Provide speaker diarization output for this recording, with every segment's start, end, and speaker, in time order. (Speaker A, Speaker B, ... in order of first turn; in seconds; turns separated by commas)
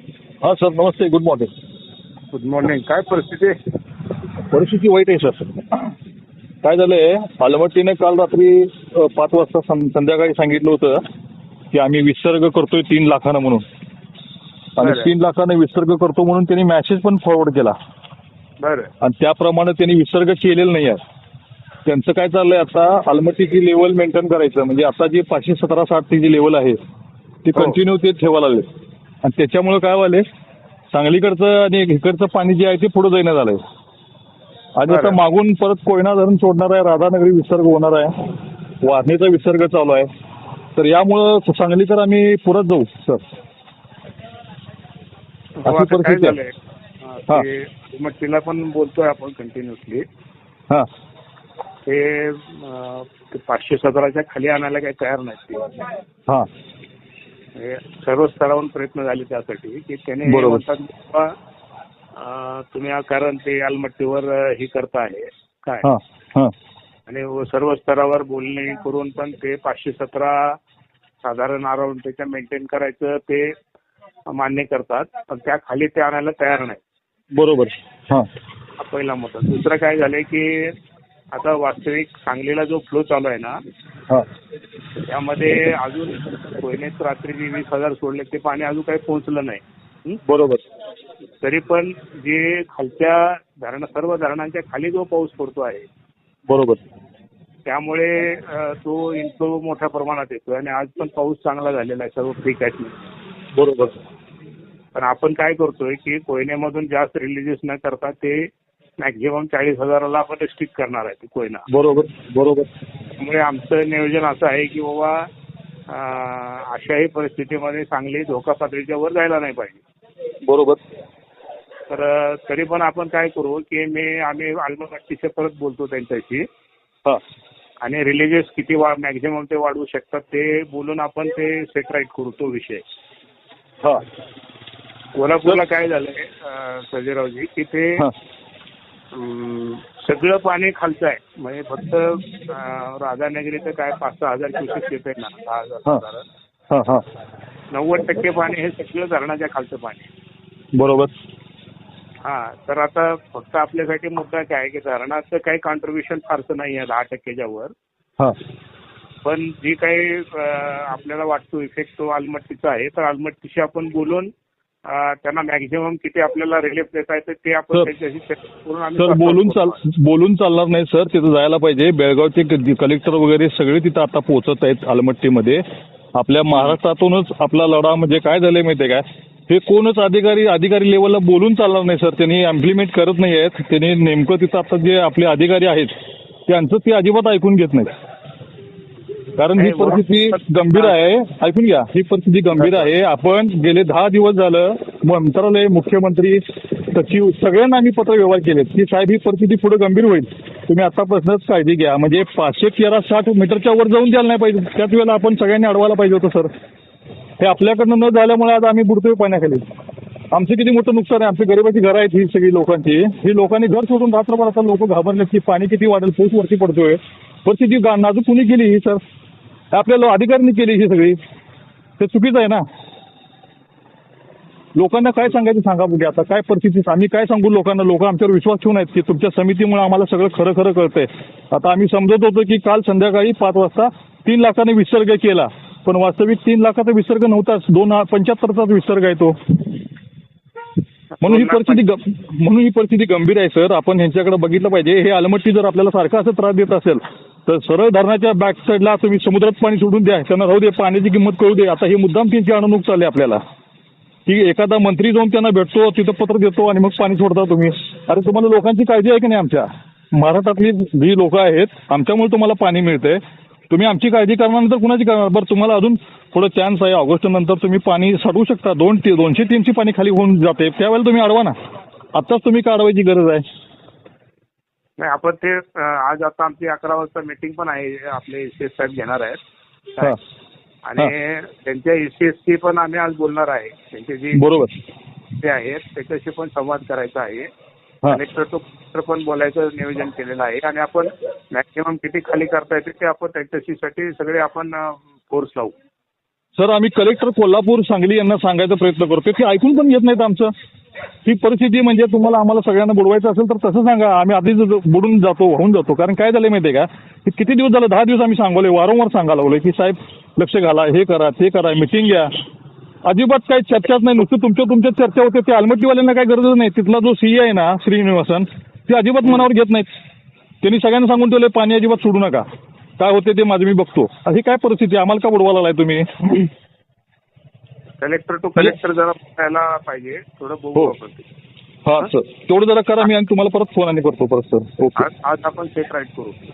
Speaker A: 0.4-1.5, Speaker B: 2.3-3.5, Speaker A: 4.5-5.9, Speaker A: 6.6-11.0, Speaker A: 11.7-13.6, Speaker A: 14.8-17.7, Speaker B: 14.8-15.1, Speaker B: 18.6-18.9, Speaker A: 19.0-21.0, Speaker A: 21.9-26.8, Speaker A: 27.4-28.6, Speaker A: 29.2-30.2, Speaker A: 30.9-33.6, Speaker A: 34.8-38.3, Speaker B: 34.9-35.2, Speaker A: 38.8-40.1, Speaker A: 40.8-43.2, Speaker B: 45.6-46.5, Speaker A: 45.6-46.4, Speaker B: 47.1-50.0, Speaker B: 51.9-55.8, Speaker B: 57.5-61.3, Speaker A: 60.2-60.6, Speaker B: 62.1-65.9, Speaker A: 65.8-66.5, Speaker B: 67.1-70.5, Speaker B: 71.2-73.5, Speaker B: 74.3-76.8, Speaker A: 77.3-78.3, Speaker B: 78.8-80.7, Speaker B: 81.3-83.5, Speaker B: 85.1-90.2, Speaker A: 90.3-90.6, Speaker B: 91.4-95.8, Speaker A: 96.5-96.8, Speaker B: 97.7-103.0, Speaker A: 103.5-104.0, Speaker B: 104.9-108.4, Speaker B: 109.0-111.6, Speaker A: 111.7-112.7, Speaker B: 113.2-115.2, Speaker B: 115.9-119.8, Speaker A: 120.4-120.8, Speaker B: 121.9-126.4, Speaker B: 127.8-132.8, Speaker B: 135.1-138.0, Speaker B: 139.1-146.2, Speaker A: 146.7-147.0, Speaker B: 147.7-150.1, Speaker A: 150.7-151.1, Speaker B: 152.2-157.7, Speaker B: 159.2-164.3, Speaker B: 164.8-169.8, Speaker A: 169.0-175.6, Speaker A: 176.2-185.9, Speaker A: 186.5-187.9, Speaker A: 189.4-206.5, Speaker B: 189.6-191.0, Speaker B: 192.6-192.8, Speaker A: 207.4-209.6, Speaker A: 210.3-219.0, Speaker A: 219.7-221.2, Speaker A: 222.0-222.6, Speaker A: 224.8-239.6, Speaker B: 241.2-241.8, Speaker A: 241.2-253.4, Speaker A: 254.3-271.5, Speaker A: 272.1-273.4, Speaker B: 275.0-279.4, Speaker B: 280.9-284.4, Speaker A: 284.3-284.7, Speaker B: 285.4-287.5, Speaker B: 288.1-295.7, Speaker A: 296.6-300.5, Speaker A: 301.2-312.3, Speaker A: 313.0-319.9, Speaker A: 320.6-322.4, Speaker A: 323.0-326.5, Speaker B: 328.0-331.2, Speaker A: 331.8-335.1, Speaker B: 335.0-336.3